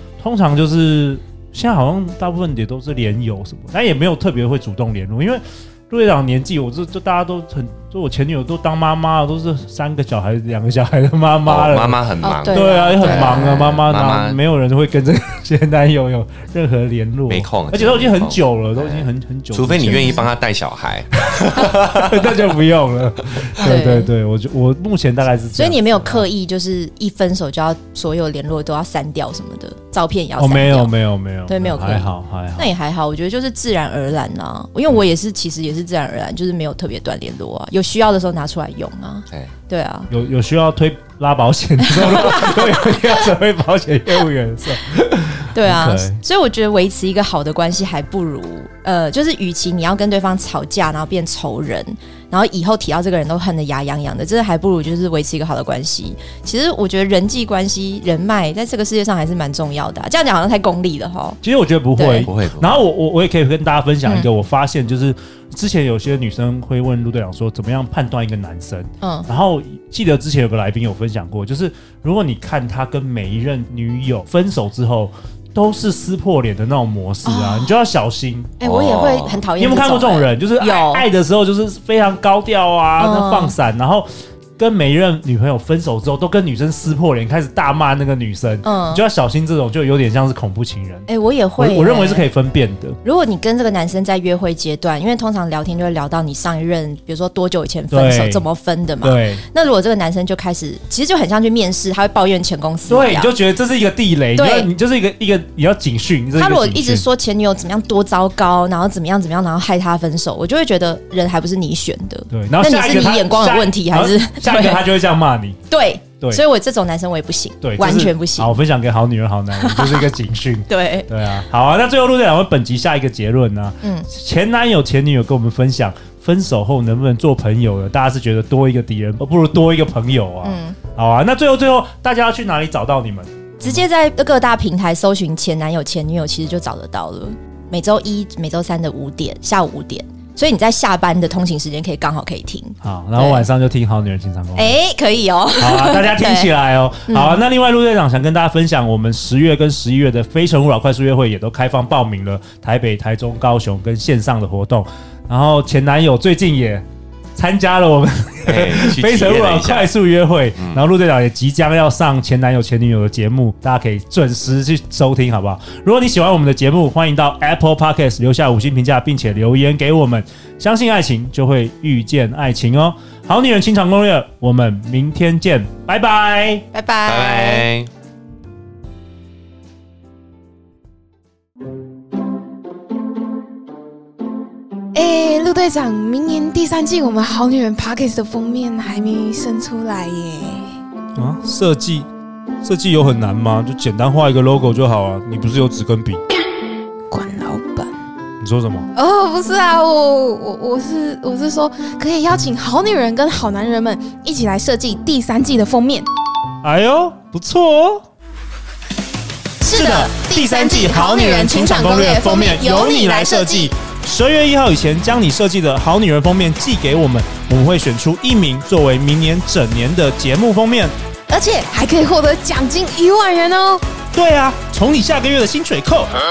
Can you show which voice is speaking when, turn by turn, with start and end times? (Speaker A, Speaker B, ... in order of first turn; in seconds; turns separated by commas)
Speaker A: 0.2-20.3, Speaker B: 11.4-14.4, Speaker C: 12.2-13.7, Speaker B: 17.3-22.4, Speaker C: 19.9-20.2, Speaker A: 21.1-26.3, Speaker C: 23.6-24.1, Speaker C: 25.6-30.9, Speaker A: 30.4-32.7, Speaker C: 31.5-40.1, Speaker A: 40.1-46.2, Speaker C: 42.0-42.7, Speaker C: 45.5-61.4, Speaker A: 61.4-78.5, Speaker C: 62.0-62.3, Speaker B: 62.2-62.8, Speaker C: 69.0-69.3, Speaker C: 77.2-77.7, Speaker C: 78.6-81.1, Speaker B: 78.6-79.4, Speaker A: 79.6-84.1, Speaker C: 83.0-83.6, Speaker A: 84.6-91.1, Speaker C: 88.6-89.0, Speaker C: 91.1-92.2, Speaker A: 91.6-93.0, Speaker C: 93.0-103.3, Speaker A: 97.9-98.4, Speaker A: 99.0-99.4, Speaker A: 102.9-107.0, Speaker C: 104.3-104.7, Speaker C: 106.4-114.8, Speaker A: 112.3-115.6, Speaker C: 115.7-118.5, Speaker A: 117.6-133.8, Speaker C: 119.6-120.1, Speaker C: 120.7-121.1, Speaker C: 123.8-124.1, Speaker C: 130.4-130.8, Speaker C: 133.6-143.5, Speaker A: 142.8-144.8, Speaker C: 144.6-146.5, Speaker A: 145.6-156.8, Speaker C: 147.1-147.4, Speaker A: 157.3-176.7, Speaker B: 158.5-159.9, Speaker B: 160.6-160.8, Speaker C: 176.7-177.7, Speaker B: 177.1-177.9, Speaker D: 184.9-190.7, Speaker A: 191.2-192.1, Speaker A: 192.6-196.2, Speaker D: 197.1-197.9, Speaker A: 198.4-198.9, Speaker D: 198.9-206.1, Speaker A: 206.6-208.0, Speaker D: 209.6-213.7, Speaker A: 209.7-220.9, Speaker D: 221.3-223.8, Speaker A: 224.1-226.1